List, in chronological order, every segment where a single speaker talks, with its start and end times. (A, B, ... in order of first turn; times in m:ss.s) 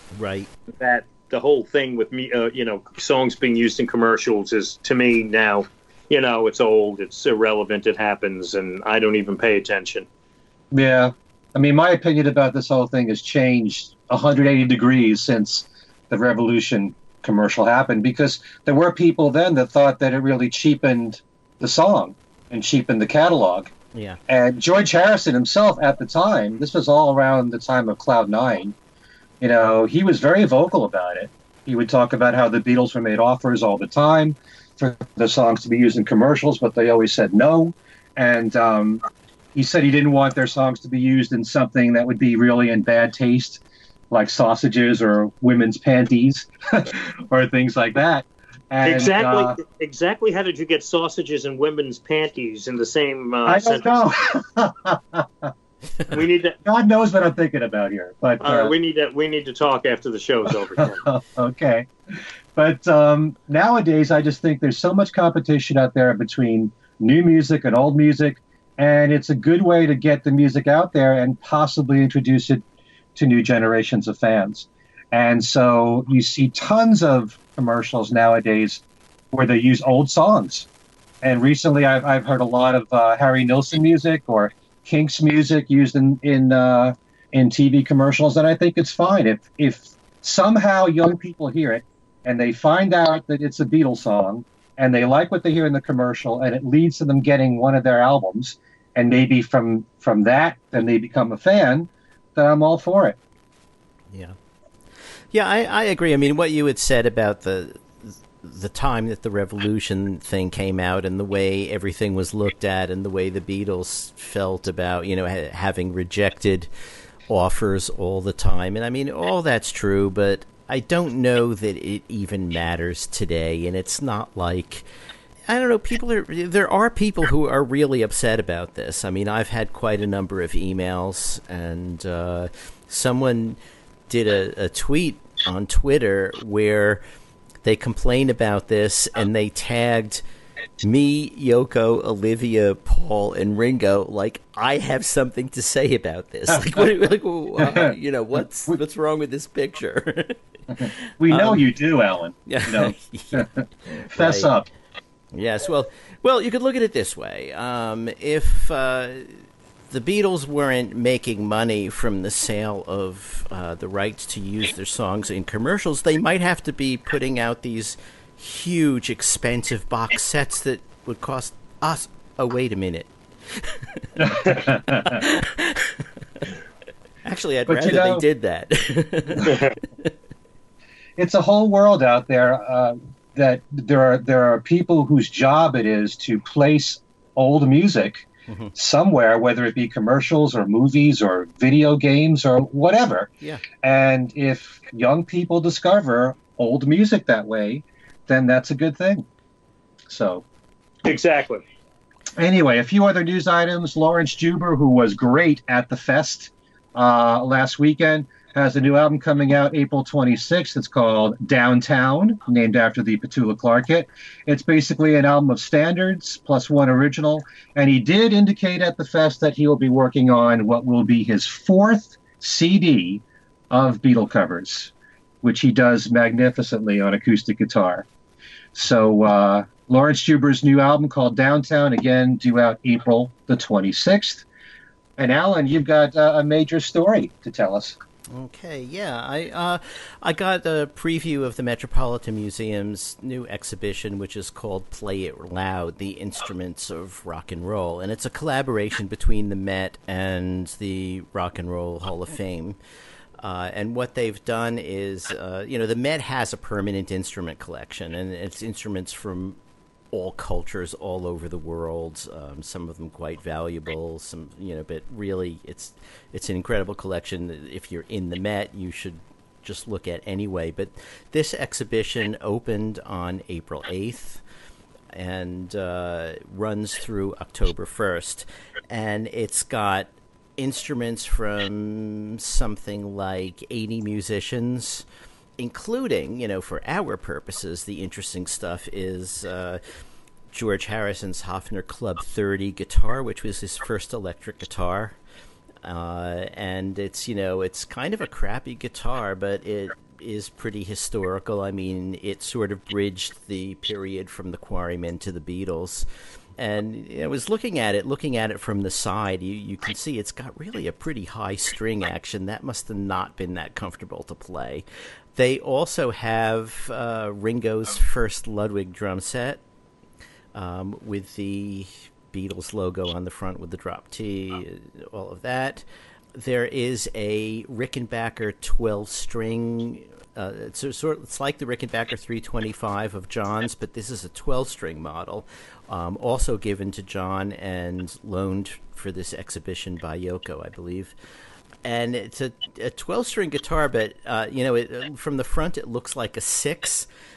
0:00.1-0:00.5 A
0:00.8-0:10.1 B
0:10.7-0:23.7 C
0:23.9-0:24.2 A
0:24.3-0:28.7 C
0:29.4-0:39.0 C
0:39.5-0:49.6 C
0:48.8-0:53.8 B
0:53.4-0:55.5 C
0:56.1-0:56.6 B
0:56.6-0:58.7 C
0:58.4-1:01.0 B
1:00.8-1:01.9 C
1:02.6-1:12.6 C
1:13.1-1:20.7 C
1:21.2-1:43.2 C
1:45.3-1:56.7 A
1:57.3-2:04.8 A
2:05.5-2:17.0 A
2:17.6-2:20.2 A
2:20.8-2:31.6 A
2:27.6-2:27.9 C
2:31.2-2:33.6 C
2:32.5-2:34.5 A
2:34.1-2:34.6 C
2:35.3-2:56.5 A
2:54.2-2:55.2 C
2:57.2-3:00.1 A
2:57.7-2:58.2 C
2:59.4-2:59.7 B
3:01.2-3:13.3 C
3:08.5-3:08.7 A
3:13.8-3:19.2 C
3:20.1-3:20.4 C
3:21.0-3:21.6 B
3:22.4-3:48.0 C
3:48.7-3:54.4 C
3:55.2-3:58.0 C
3:58.3-4:12.8 A
4:13.4-4:19.6 A
4:20.1-4:34.4 A
4:35.1-4:45.0 A
4:45.6-4:49.8 A
4:50.5-4:55.2 A
4:55.8-5:06.1 A
5:06.6-5:14.8 A
5:15.4-5:19.6 A
5:20.5-5:41.1 A
5:41.8-5:47.1 A